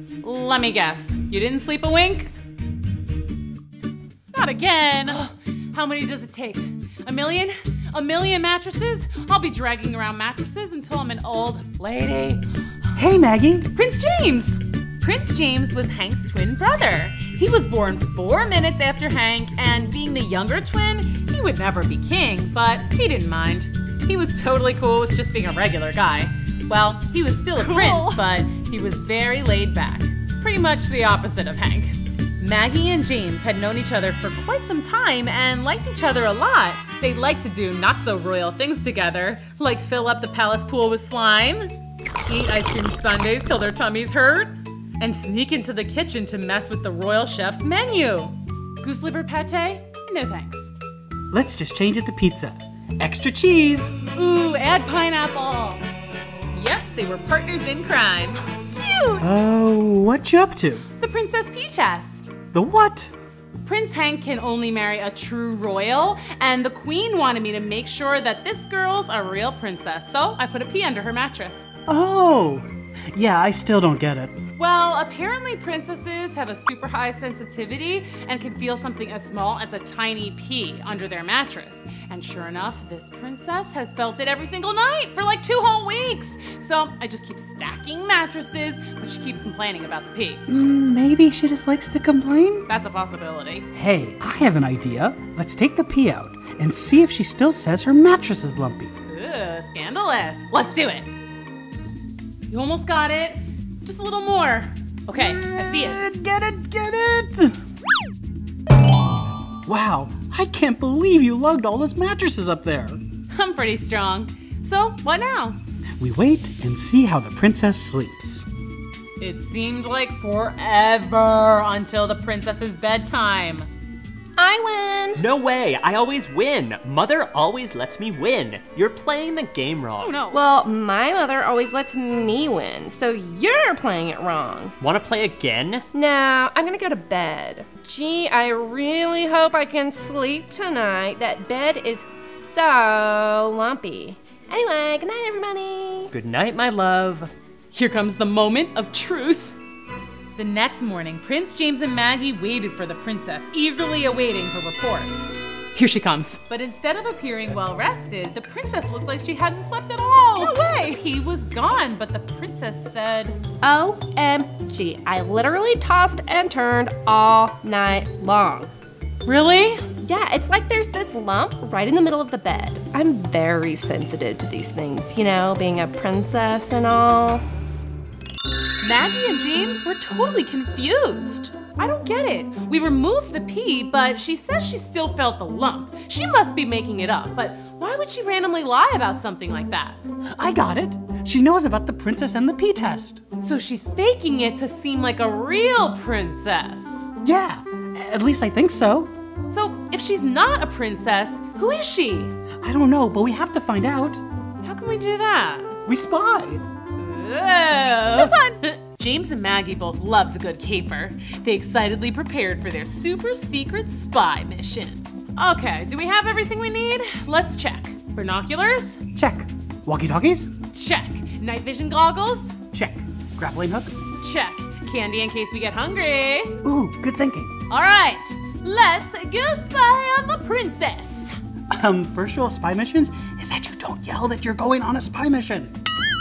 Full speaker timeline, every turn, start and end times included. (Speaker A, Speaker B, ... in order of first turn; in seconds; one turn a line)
Speaker A: 0.2-2.3
Speaker A: 4.3-12.4
Speaker B: 12.9-13.7
Speaker A: 13.7-41.7
Speaker C: 27.6-28.2
Speaker A: 42.2-50.7
Speaker B: 51.3-53.9
Speaker A: 54.1-55.8
Speaker A: 56.5-58.4
Speaker B: 59.2-60.8
Speaker A: 61.0-62.3
Speaker B: 62.5-63.1
Speaker A: 63.6-71.6
Speaker B: 71.9-74.3
Speaker A: 74.6-90.4
Speaker B: 90.5-92.7
Speaker A: 92.7-93.7
Speaker B: 93.7-98.9
Speaker A: 99.1-101.1
Speaker A: 102.5-106.0
Speaker B: 105.1-107.5
Speaker B: 109.7-113.0
Speaker A: 113.3-115.6
Speaker B: 116.0-118.4
Speaker A: 119.2-123.7
Speaker C: 124.4-125.2
Speaker D: 125.2-130.2
Speaker A: 130.0-130.4
Speaker C: 130.3-134.7
Speaker D: 134.8-135.8
Speaker C: 135.9-146.1
Speaker D: 146.1-147.3
Speaker A: 147.7-149.5
Speaker A: 150.4-155.1
Speaker A: 155.7-163.4
Speaker C: 160.4-160.7
Speaker C: 163.6-168.7
Speaker A: 169.2-169.8
Speaker C: 170.0-177.4
Speaker A: 178.8-190.0
Speaker B: 190.3-193.2
Speaker A: 193.4-197.1
Speaker B: 197.2-199.1
Speaker A: 199.5-202.3
Speaker B: 202.6-204.2
Speaker A: 204.6-205.8
Speaker B: 205.9-206.6
Speaker A: 206.9-219.0
Speaker B: 219.1-220.5
Speaker A: 220.7-222.6
Speaker B: 222.7-223.9
Speaker A: 224.2-226.6
Speaker B: 226.6-227.6
Speaker A: 227.7-231.3
Speaker B: 231.7-235.7